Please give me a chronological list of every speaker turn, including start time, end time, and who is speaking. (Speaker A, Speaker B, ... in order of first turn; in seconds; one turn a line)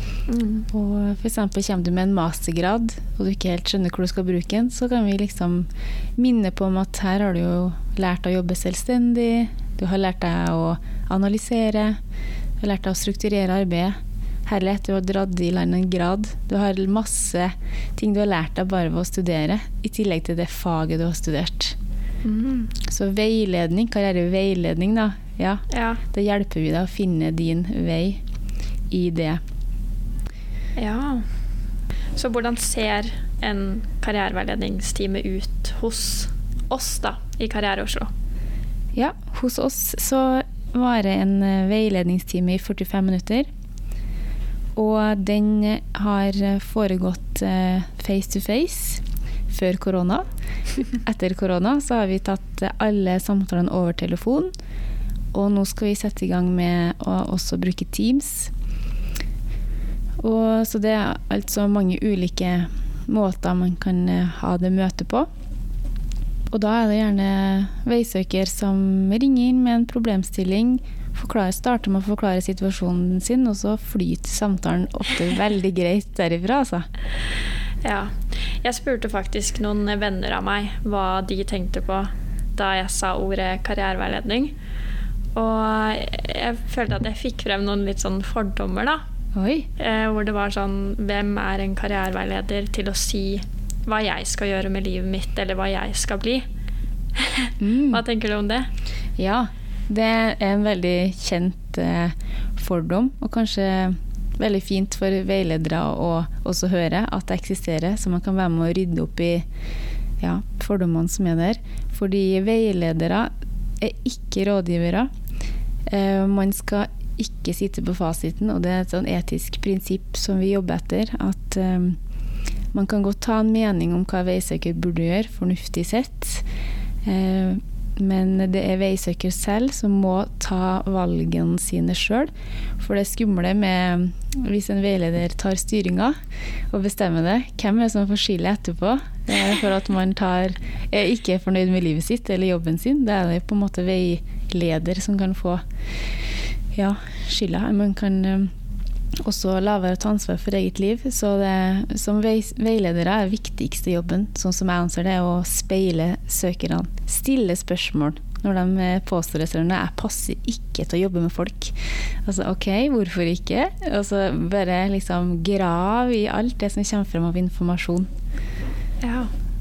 Speaker A: 0.3-0.7
Speaker B: 0.7-12.0
Speaker B: 12.6-21.8
Speaker A: 22.2-22.7
Speaker B: 22.8-28.2
Speaker A: 25.7-26.0
Speaker B: 28.9-29.4
Speaker A: 30.8-31.3
Speaker A: 32.2-38.1
Speaker B: 38.9-43.5
Speaker B: 44.8-50.2
Speaker B: 51.0-54.5
Speaker B: 55.3-58.5
Speaker B: 60.2-65.3
Speaker B: 66.5-76.9
Speaker A: 77.8-84.5
Speaker A: 85.3-89.0
Speaker B: 89.3-89.7
Speaker A: 89.8-96.4
Speaker A: 97.2-98.7
Speaker B: 97.6-98.0
Speaker B: 99.2-109.5
Speaker B: 110.2-115.1
Speaker B: 115.9-122.0
Speaker B: 122.7-126.5
Speaker B: 127.0-136.1
Speaker B: 136.7-145.6
Speaker B: 146.8-148.5
Speaker B: 149.2-168.1
Speaker A: 169.0-169.3